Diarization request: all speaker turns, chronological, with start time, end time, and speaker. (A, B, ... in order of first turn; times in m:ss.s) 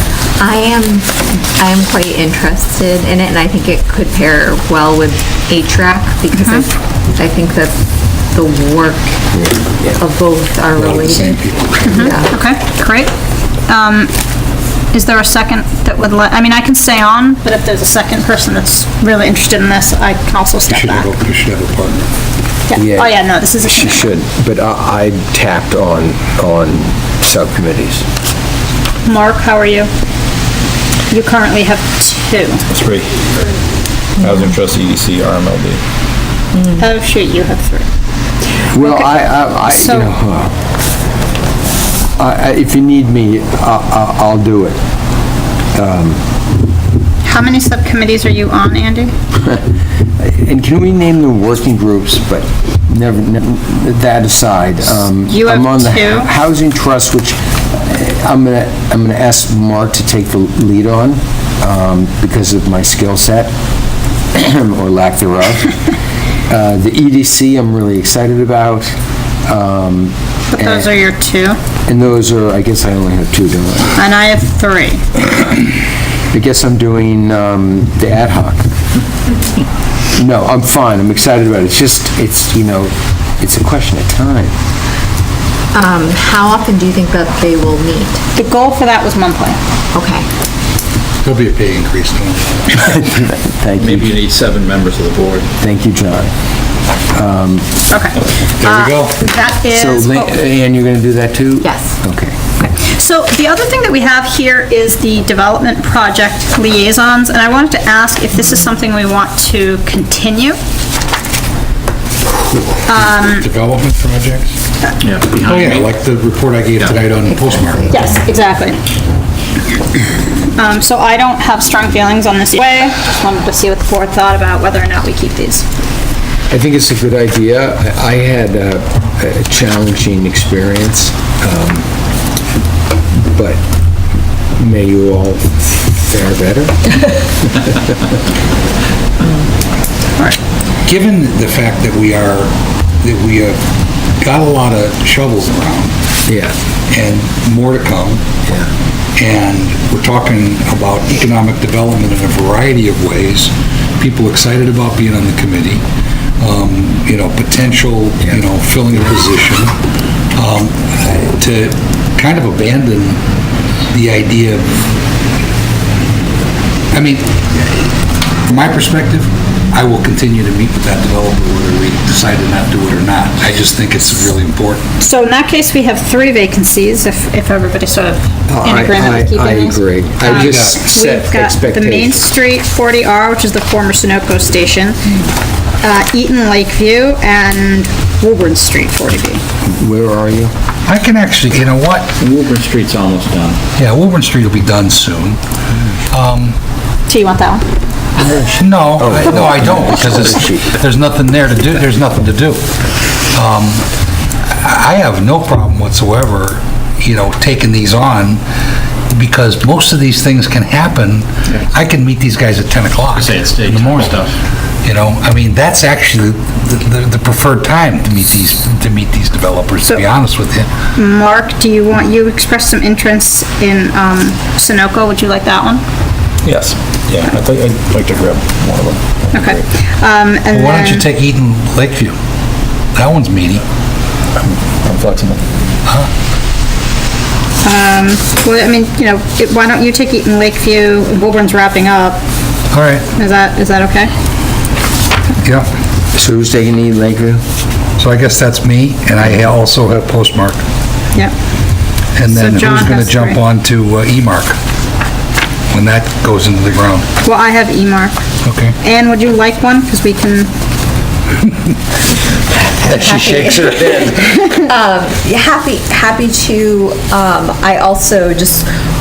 0:00.4-0:07.7 A
0:06.3-0:06.7 B
0:08.3-0:09.2 A
0:09.3-0:10.0 C
0:09.8-0:12.3 A
0:10.7-0:12.0 D
0:11.8-0:13.1 B
0:13.7-0:14.1 B
0:14.9-0:21.1 B
0:20.7-0:22.1 D
0:22.7-0:24.1 B
0:22.8-0:28.0 C
0:29.0-0:29.9 B
0:31.1-0:32.6 B
0:32.7-0:33.3 E
0:34.2-0:35.8 E
0:36.8-0:37.9 B
0:38.7-0:40.5 C
0:38.8-0:39.1 B
0:39.6-0:40.1 B
0:42.2-0:44.8 C
0:45.7-0:46.2 C
0:47.2-0:49.1 B
0:49.4-0:49.7 C
0:50.2-1:03.5 C
0:55.3-0:56.3 B
1:04.4-1:05.8 C
1:06.5-1:08.9 C
1:09.5-1:10.9 C
1:10.5-1:11.6 B
1:11.9-1:14.0 C
1:14.0-1:15.0 B
1:16.3-1:18.6 C
1:20.1-1:24.5 C
1:25.7-1:28.2 A
1:28.4-1:29.6 B
1:29.9-1:30.3 A
1:31.2-1:32.9 D
1:32.8-1:34.2 C
1:33.8-1:35.5 E
1:35.6-1:36.3 C
1:37.1-1:37.7 C
1:37.9-1:40.4 B
1:38.6-1:39.3 D
1:39.7-1:42.4 C
1:41.6-1:42.0 A
1:42.6-1:50.6 B
1:52.6-1:54.6 D
1:52.9-1:53.5 B
1:55.0-1:55.9 E
1:55.3-1:57.8 D
1:56.8-1:58.2 A
1:57.9-1:58.8 B
2:00.6-2:05.6 B
2:06.5-2:11.9 C
2:13.2-2:13.6 C
2:14.6-2:17.3 C
2:20.9-2:23.6 D
2:24.2-2:25.9 D
2:26.3-2:26.6 C
2:26.9-2:28.2 D
2:29.2-2:35.8 D
2:36.4-2:39.8 D
2:40.4-2:43.2 D
2:43.9-2:44.8 D
2:46.9-2:47.9 D
2:48.5-2:54.8 D
2:55.0-3:05.1 B
2:58.5-3:02.3 C
3:00.2-3:00.8 D
3:05.8-3:09.4 B
3:09.6-3:10.5 C
3:10.9-3:12.1 D
3:12.2-3:13.6 E
3:13.8-3:15.4 D
3:16.1-3:16.6 D
3:17.1-3:17.6 B
3:18.2-3:20.7 C
3:18.5-3:22.6 D
3:23.3-3:23.8 D
3:24.5-3:28.4 D
3:29.1-3:34.2 D
3:33.1-3:34.4 E
3:34.8-3:40.7 D
3:41.0-3:45.8 B
3:46.4-3:49.6 E
3:49.3-3:51.1 B
3:50.5-3:52.2 D
3:53.0-3:53.6 D
3:54.4-3:55.4 E
3:57.6-4:02.2 B
4:02.7-4:03.1 D
4:03.2-4:04.1 B
4:05.4-4:05.7 D
4:06.1-4:07.4 C
4:08.0-4:10.6 D
4:12.2-4:14.6 D
4:12.3-4:13.4 B
4:15.7-4:17.1 D
4:17.2-4:18.1 B
4:18.4-4:18.8 D
4:18.8-4:20.5 B
4:22.7-4:28.7 A
4:22.8-4:24.2 D